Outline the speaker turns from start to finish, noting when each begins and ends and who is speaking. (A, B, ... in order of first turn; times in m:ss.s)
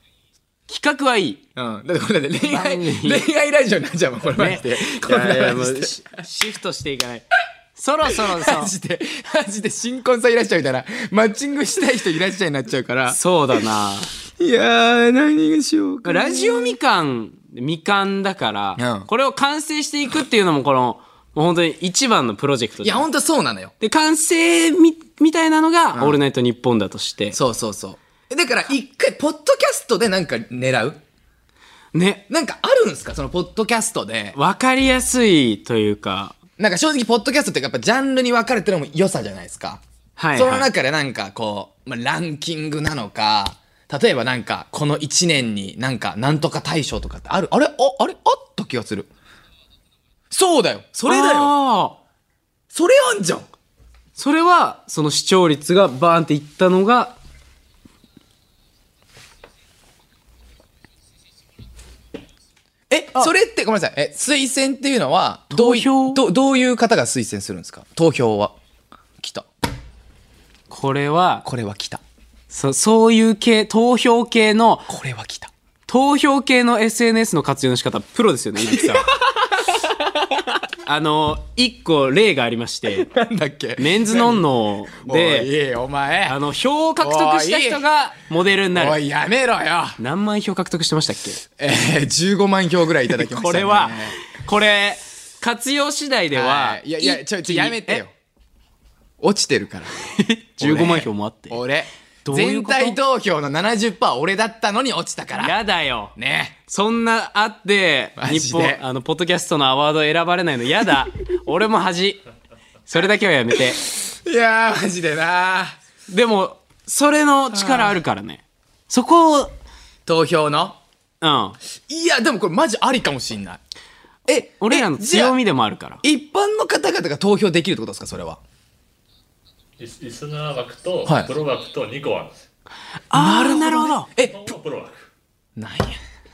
0:00.7-0:01.4 A
0:01.6-0:06.2 B
0:02.5-0:03.3 A
0:04.4-0:08.7 A
0:08.1-0:13.2 B
0:13.1-0:14.1 A
0:14.4-0:16.8 B
0:16.0-0:23.1 A
0:18.8-0:19.1 B
0:22.8-0:23.7 B
0:23.8-0:27.4 A
0:27.3-0:31.0 B
0:31.9-0:32.2 A
0:32.3-0:34.4 B
0:34.4-0:36.4 A
0:36.6-0:39.8 B
0:40.2-0:40.7 A
0:40.4-0:49.1 B
0:50.3-0:51.5 B
0:51.0-0:52.0 A
0:52.7-0:53.5 B
0:54.2-0:57.2 A
1:02.9-1:08.6 B
1:05.5-1:06.2 A
1:09.2-1:09.5 B
1:10.7-1:11.5 A
1:11.4-1:12.0 B
1:12.5-1:14.9 A
1:14.9-1:15.5 B
1:15.9-1:19.1 A
1:18.6-1:20.0 B
1:20.8-1:23.1 A
1:22.9-1:24.4 B
1:23.8-1:25.5 A
1:25.0-1:26.4 B
1:26.3-1:29.0 A
1:27.0-1:27.8 B
1:28.7-1:30.0 B
1:30.0-1:31.4 A
1:31.6-1:34.2 B
1:33.1-1:38.0 A
1:36.3-1:38.1 B
1:39.2-1:40.0 B
1:40.0-1:41.6 A
1:40.6-1:45.6 B
1:42.2-1:43.0 A
1:45.4-1:46.1 A
1:46.2-1:46.6 B
1:46.7-1:52.2 A
1:48.2-1:48.8 B
1:52.9-1:53.8 A
1:53.9-1:55.8 B
1:56.1-1:59.5 A
1:57.5-1:58.0 B
2:00.1-2:00.8 B
2:01.2-2:01.6 A
2:01.9-2:03.6 B
2:04.3-2:05.4 B
2:04.6-2:06.0 A
2:06.0-2:08.4 B
2:09.8-2:12.4 C
2:11.1-2:11.3 B
2:13.1-2:14.1 A
2:13.1-2:14.5 B
2:14.2-2:15.1 C
2:15.6-2:16.0 B